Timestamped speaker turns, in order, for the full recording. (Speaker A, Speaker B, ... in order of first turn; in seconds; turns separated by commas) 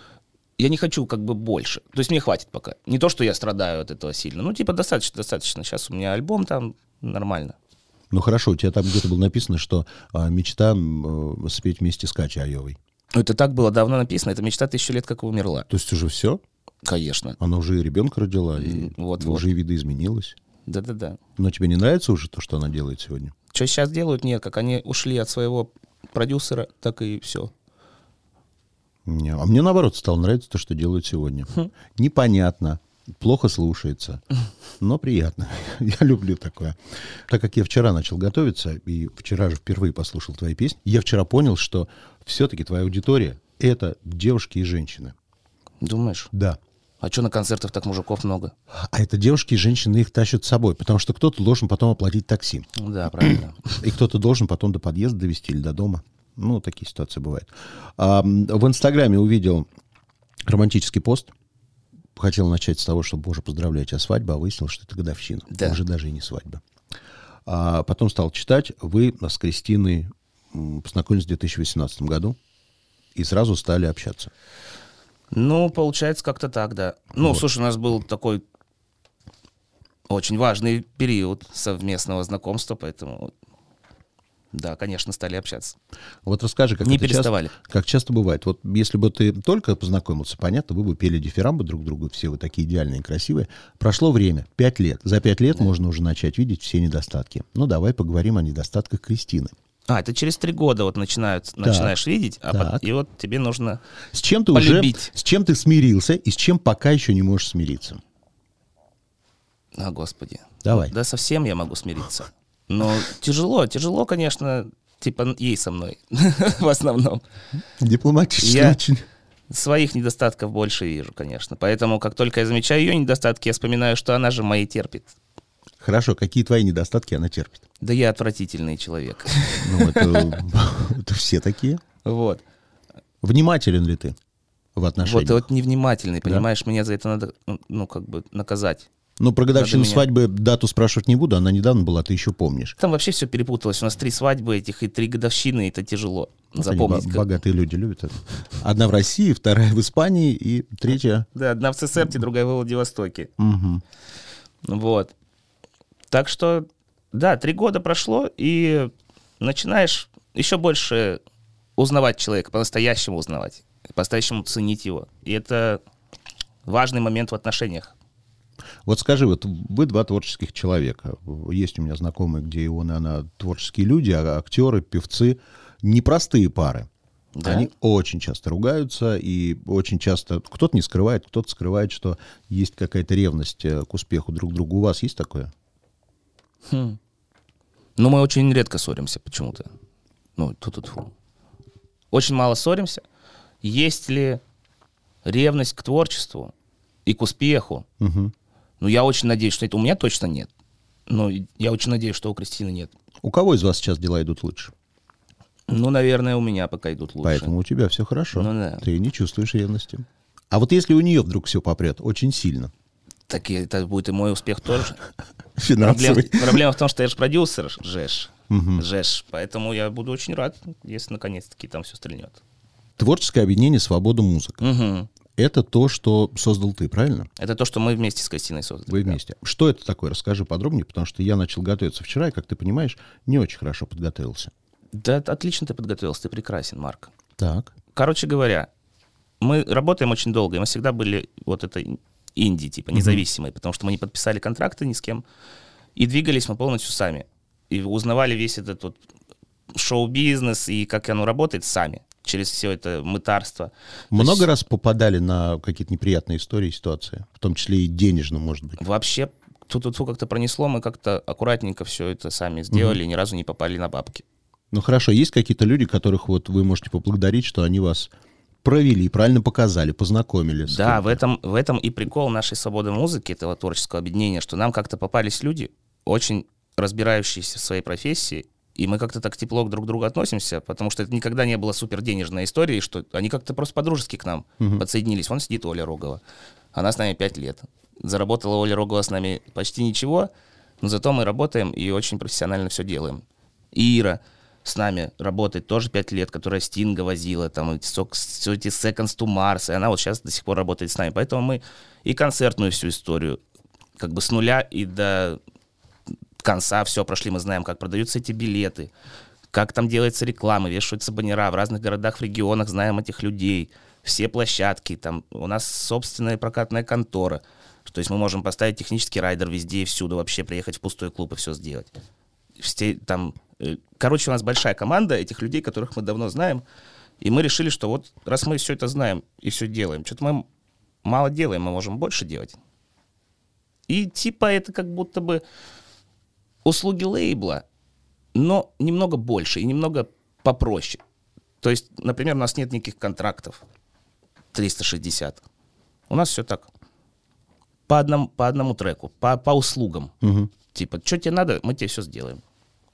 Speaker A: 0.6-7.6, Speaker B: 8.1-12.8, Speaker A: 13.1-15.7, Speaker B: 15.7-16.4, Speaker A: 16.9-17.4, Speaker B: 17.4-20.4, Speaker A: 18.6-19.5, Speaker A: 20.7-21.2, Speaker B: 21.4-23.3, Speaker A: 23.5-27.5, Speaker B: 29.1-34.2, Speaker B: 34.8-45.1, Speaker A: 45.8-46.3, Speaker B: 46.3-46.6, Speaker A: 47.0-48.5, Speaker B: 48.7-52.7, Speaker A: 52.8-53.8, Speaker B: 53.2-59.7, Speaker B: 60.5-61.3, Speaker B: 62.2-66.6, Speaker A: 65.5-65.8, Speaker B: 67.5-72.4, Speaker B: 73.2-74.3, Speaker A: 75.3-78.4, Speaker A: 80.1-83.3, Speaker A: 84.5-85.8, Speaker B: 86.2-99.5, Speaker A: 86.8-87.5, Speaker A: 99.9-103.8, Speaker B: 101.6-102.0, Speaker B: 102.5-102.9, Speaker B: 104.1-108.0, Speaker A: 104.5-105.1, Speaker A: 109.8-117.2, Speaker B: 110.6-110.9, Speaker B: 117.8-119.0, Speaker A: 118.4-118.8, Speaker A: 119.5-125.1, Speaker B: 125.8-127.6, Speaker A: 127.8-130.4, Speaker B: 129.6-131.8, Speaker A: 132.0-132.4, Speaker B: 133.2-134.2, Speaker B: 134.8-135.5, Speaker A: 135.0-138.9, Speaker B: 139.2-142.8, Speaker A: 139.5-140.1, Speaker A: 142.8-147.3, Speaker B: 146.6-151.3, Speaker A: 151.3-153.3, Speaker B: 153.4-153.8, Speaker A: 154.7-155.1, Speaker A: 156.1-161.2, Speaker A: 161.8-165.8, Speaker A: 166.7-167.9, Speaker B: 168.8-176.9, Speaker A: 177.3-177.7, Speaker B: 177.4-185.5, Speaker A: 186.7-187.0, Speaker A: 188.0-189.7, Speaker A: 190.4-191.1, Speaker A: 192.1-193.0, Speaker A: 193.6-194.4, Speaker A: 195.2-196.5, Speaker A: 197.1-197.9, Speaker B: 198.0-198.3, Speaker A: 198.8-200.5, Speaker A: 201.1-202.9, Speaker B: 203.2-204.7, Speaker A: 205.7-207.5, Speaker B: 207.2-212.7, Speaker A: 208.3-208.8, Speaker A: 213.3-215.0, Speaker B: 215.6-216.6, Speaker A: 215.8-222.4, Speaker B: 218.5-218.8, Speaker B: 223.0-224.7, Speaker A: 224.6-225.1, Speaker B: 225.4-227.3, Speaker A: 227.4-229.2, Speaker B: 228.9-234.5, Speaker A: 234.9-237.1, Speaker B: 237.4-237.7, Speaker A: 237.9-238.7, Speaker A: 239.4-245.2, Speaker B: 242.9-243.2, Speaker A: 246.0-249.0, Speaker A: 249.7-254.5, Speaker B: 254.1-258.8, Speaker A: 258.8-264.2, Speaker B: 262.7-263.0, Speaker B: 264.7-268.1, Speaker B: 268.6-271.2, Speaker A: 270.7-286.2, Speaker A: 286.7-303.4, Speaker A: 304.0-305.4, Speaker A: 306.4-308.9, Speaker A: 309.5-321.9, Speaker A: 322.6-326.6, Speaker A: 327.2-330.4, Speaker A: 331.0-332.6, Speaker A: 333.9-335.4, Speaker A: 336.6-337.6, Speaker A: 338.3-341.0, Speaker A: 341.6-343.6, Speaker A: 344.5-345.4, Speaker A: 346.1-346.7, Speaker A: 347.9-350.1, Speaker B: 350.2-350.5, Speaker A: 350.7-352.4